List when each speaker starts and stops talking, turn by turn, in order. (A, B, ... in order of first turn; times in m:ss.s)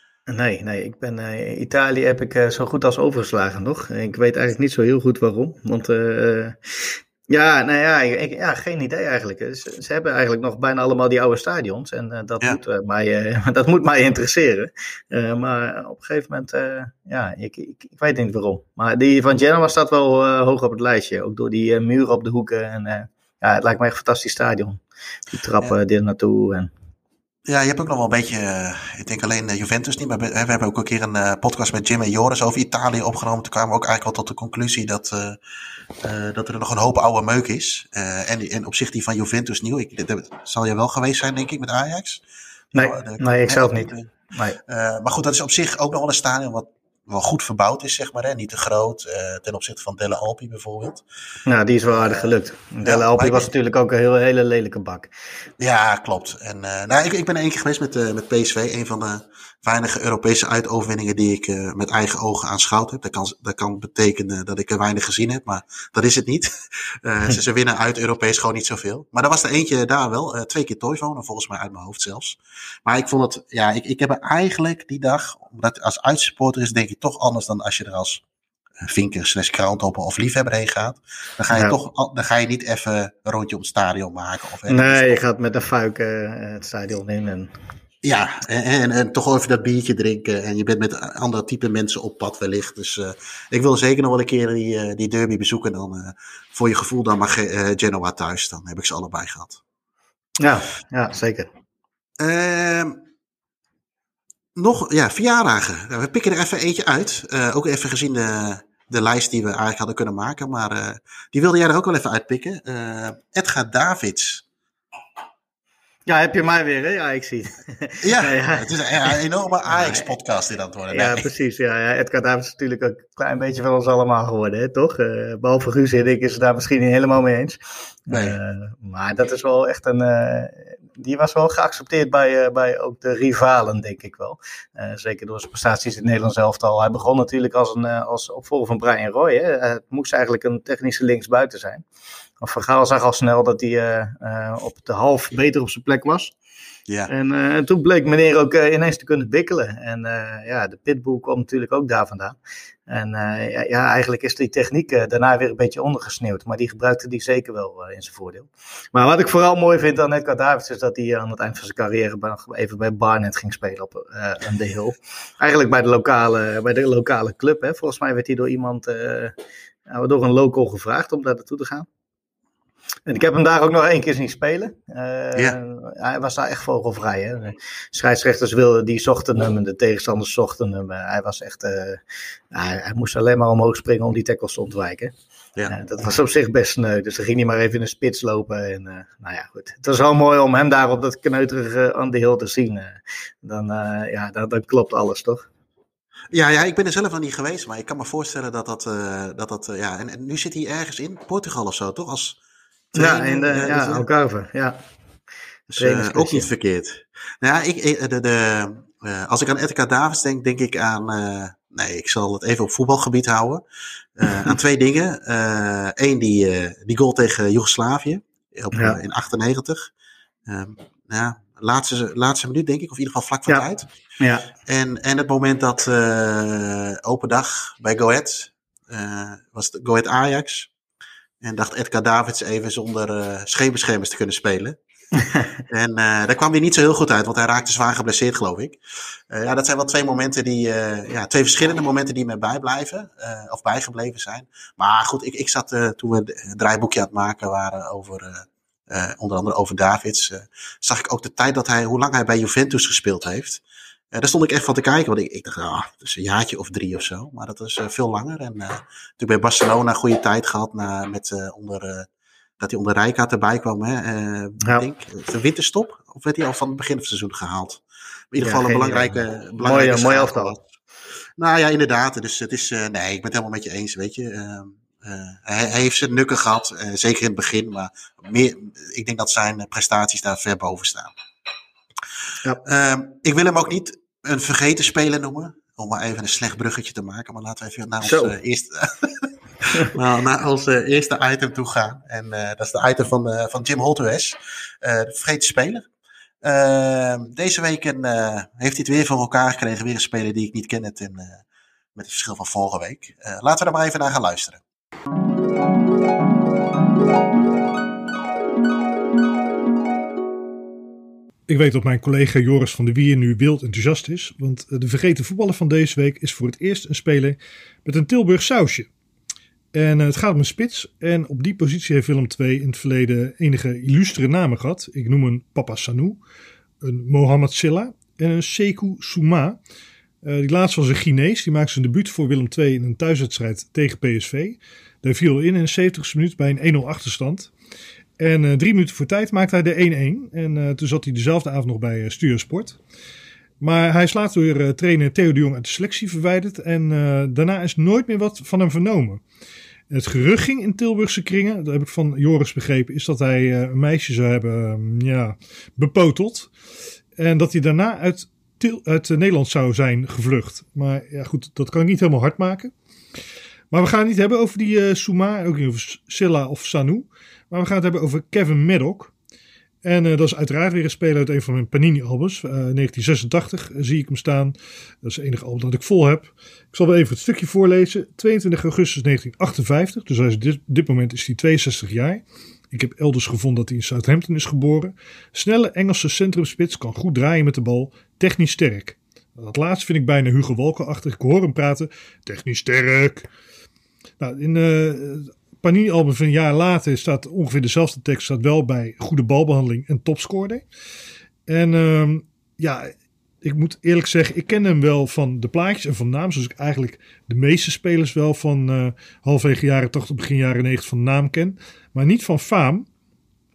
0:00.3-0:24.8 A
0:25.3-0:26.7 A
0:27.5-0:35.4 B
0:36.0-0:42.2 B
0:42.7-0:44.1 B
0:42.7-0:44.6 A
0:44.7-0:51.0 B
0:51.4-0:55.1 A
0:51.9-0:52.3 B
0:52.8-0:53.5 B
0:55.6-1:18.2 B
1:18.8-1:25.2 B
1:24.7-1:27.5 A
1:28.0-1:39.6 B
1:40.4-1:41.5 A
1:42.2-1:43.0 B
1:44.6-1:54.4 B
1:56.0-1:59.1 A
1:58.0-2:01.3 B
1:59.7-2:00.1 A
2:00.9-2:07.6 A
2:08.1-2:08.4 B
2:08.1-2:21.8 A
2:22.4-2:26.3 A
2:27.1-2:32.4 A
2:32.9-2:49.3 A
2:49.9-2:51.9 A
2:53.1-3:02.0 A
3:02.5-3:05.1 A
3:05.7-3:15.5 A
3:16.3-3:22.4 B
3:22.9-3:24.0 B
3:22.9-3:24.8 A
3:25.7-3:33.6 B
3:25.8-3:26.5 A
3:34.2-3:39.9 B
3:34.2-3:34.5 A
3:38.7-3:39.0 A
3:40.5-3:43.9 B
3:44.2-3:44.5 A
3:44.6-3:50.7 B
3:51.4-3:54.8 B
3:55.2-3:55.5 A
3:55.7-3:58.8 B
3:59.3-4:13.6 B
4:14.1-4:22.1 B
4:22.6-4:30.6 B
4:28.4-4:30.6 A
4:31.4-4:41.1 B
4:42.6-4:55.8 B
4:48.0-4:48.4 A
4:56.4-5:01.4 B
5:02.0-5:04.6 B
5:11.5-5:18.9 C
5:19.7-5:26.2 C
5:26.8-5:29.6 C
5:30.2-5:37.5 C
5:38.2-5:42.8 C
5:43.6-5:49.2 C
5:49.9-5:56.5 C
5:57.2-6:02.7 C
6:03.7-6:09.1 C
6:09.8-6:14.5 C
6:15.0-6:33.3 C
6:34.2-6:40.6 C
6:41.5-6:42.9 C
6:43.4-6:52.9 C